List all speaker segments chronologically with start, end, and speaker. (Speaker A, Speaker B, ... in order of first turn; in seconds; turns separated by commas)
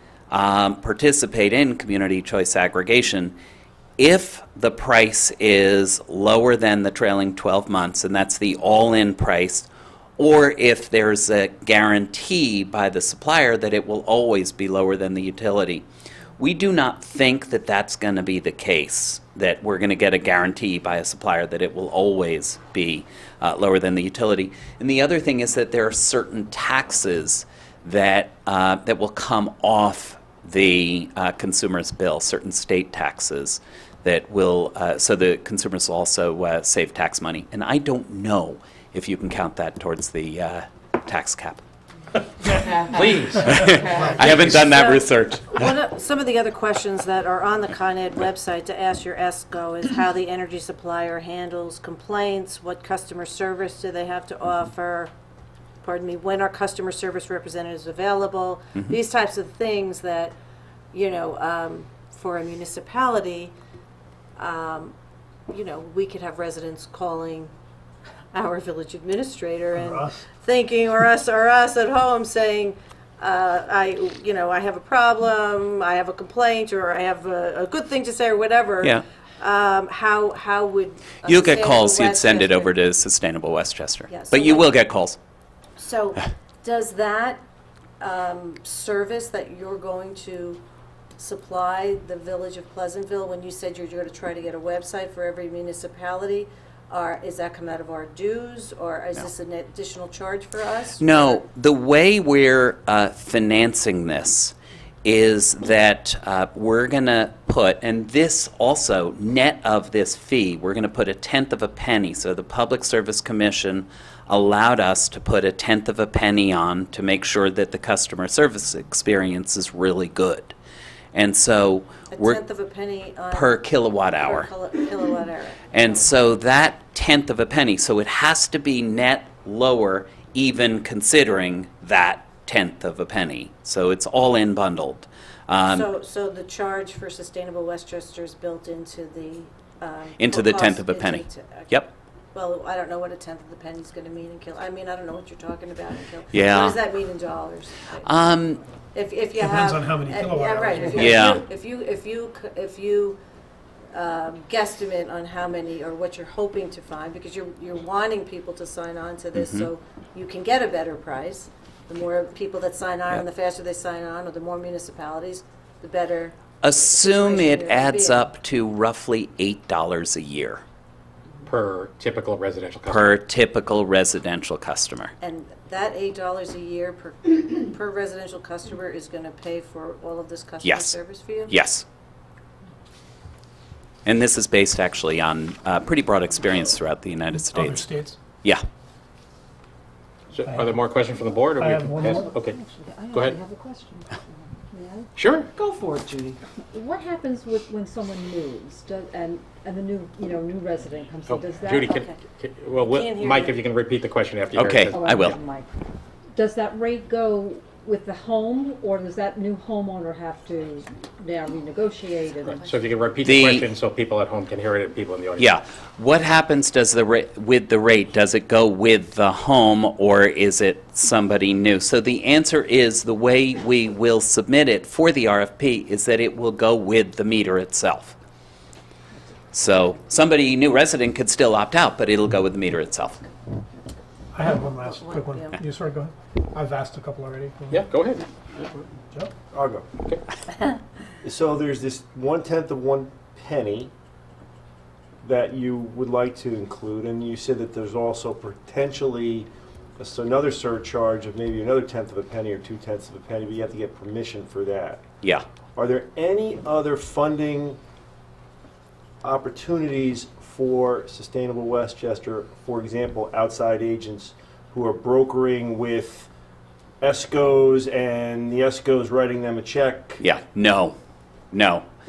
Speaker A: 0.3-3.4, Speaker A: 4.0-15.8, Speaker A: 16.4-41.6, Speaker B: 42.6-44.5, Speaker A: 43.4-45.7, Speaker C: 44.0-55.1, Speaker C: 55.8-60.3, Speaker C: 60.9-63.5, Speaker C: 64.3-64.9, Speaker C: 65.5-67.5, Speaker C: 68.3-82.7, Speaker D: 69.8-70.1, Speaker A: 81.2-85.2, Speaker C: 84.1-84.7, Speaker C: 85.8-87.4, Speaker C: 88.0-90.6, Speaker C: 91.2-101.4, Speaker A: 101.0-120.5, Speaker A: 121.1-122.4, Speaker C: 122.1-125.7, Speaker A: 123.3-124.5, Speaker A: 125.7-135.9, Speaker C: 135.6-141.8, Speaker A: 140.2-141.9, Speaker C: 142.3-148.1, Speaker A: 146.3-146.8, Speaker A: 148.0-148.6, Speaker C: 148.9-153.2, Speaker D: 149.4-151.2, Speaker A: 150.9-151.4, Speaker C: 153.9-166.3, Speaker A: 159.3-159.7, Speaker A: 166.6-170.6, Speaker C: 166.9-168.3, Speaker B: 171.4-173.2, Speaker A: 172.8-175.1, Speaker C: 175.2-181.5, Speaker A: 180.6-180.9, Speaker A: 181.5-181.8, Speaker A: 184.0-187.9, Speaker D: 187.5-188.2, Speaker B: 190.3-192.6, Speaker D: 190.4-190.7, Speaker D: 191.6-192.3, Speaker E: 192.2-201.9, Speaker B: 193.1-193.4, Speaker B: 195.1-195.5, Speaker B: 201.3-205.2, Speaker C: 201.8-202.2, Speaker C: 202.8-203.6, Speaker A: 204.6-205.4, Speaker E: 204.9-205.7, Speaker E: 206.3-212.7, Speaker B: 212.4-215.5, Speaker A: 213.2-213.7, Speaker A: 215.4-228.2, Speaker A: 229.5-233.2, Speaker D: 234.3-237.9, Speaker C: 234.9-235.6, Speaker B: 237.7-238.8, Speaker F: 239.5-239.9, Speaker F: 241.2-243.9, Speaker F: 245.2-249.5, Speaker F: 250.0-255.0, Speaker F: 255.8-257.8, Speaker F: 259.2-266.3, Speaker F: 267.0-270.2, Speaker A: 270.2-270.9, Speaker A: 271.5-271.8